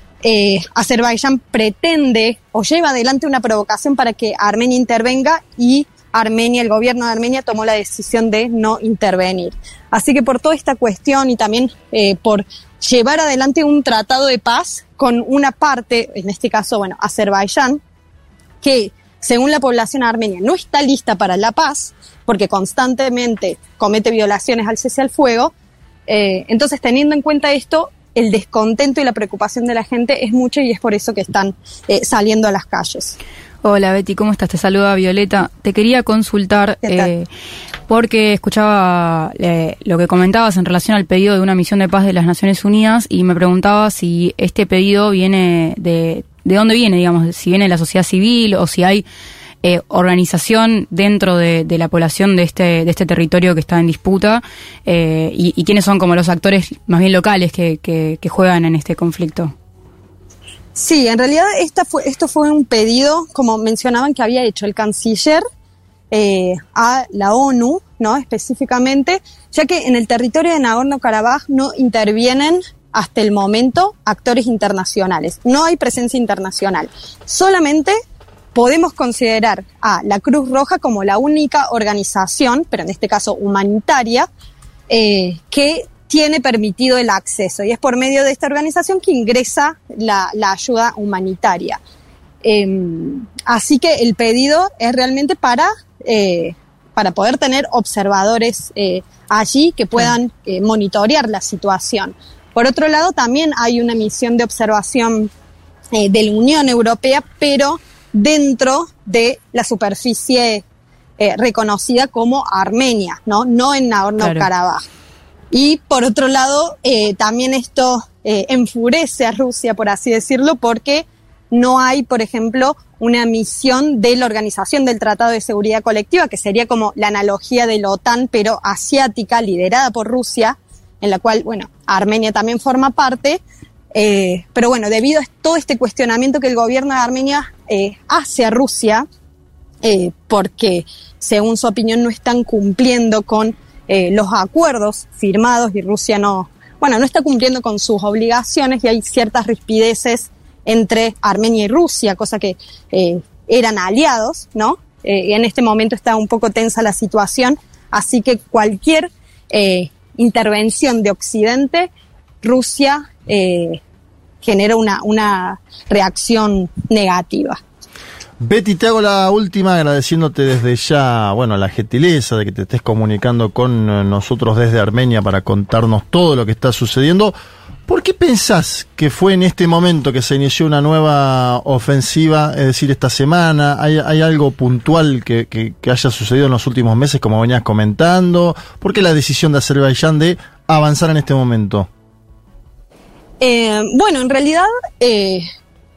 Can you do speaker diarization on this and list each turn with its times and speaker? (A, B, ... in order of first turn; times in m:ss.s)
0:00.2-0:17.8 A
0:18.6-0:25.5 A
0:26.1-0:33.2 A
0:33.6-0:37.2 B
0:36.8-0:37.1 A
0:37.9-0:49.1 B
0:49.6-0:59.5 B
1:00.8-1:05.4 A
1:06.1-1:17.9 A
1:18.5-1:24.3 A
1:24.9-1:31.8 A
1:32.4-1:45.3 A
1:45.9-1:50.6 A
1:51.2-1:54.8 A
1:54.2-1:54.4 B
1:55.5-2:13.4 A
2:13.9-2:19.1 A
2:19.8-2:41.9 A
2:42.4-2:43.8 A
2:44.4-2:47.6 A
2:48.4-2:57.3 C
2:57.9-3:11.9 C
3:13.4-3:15.4 A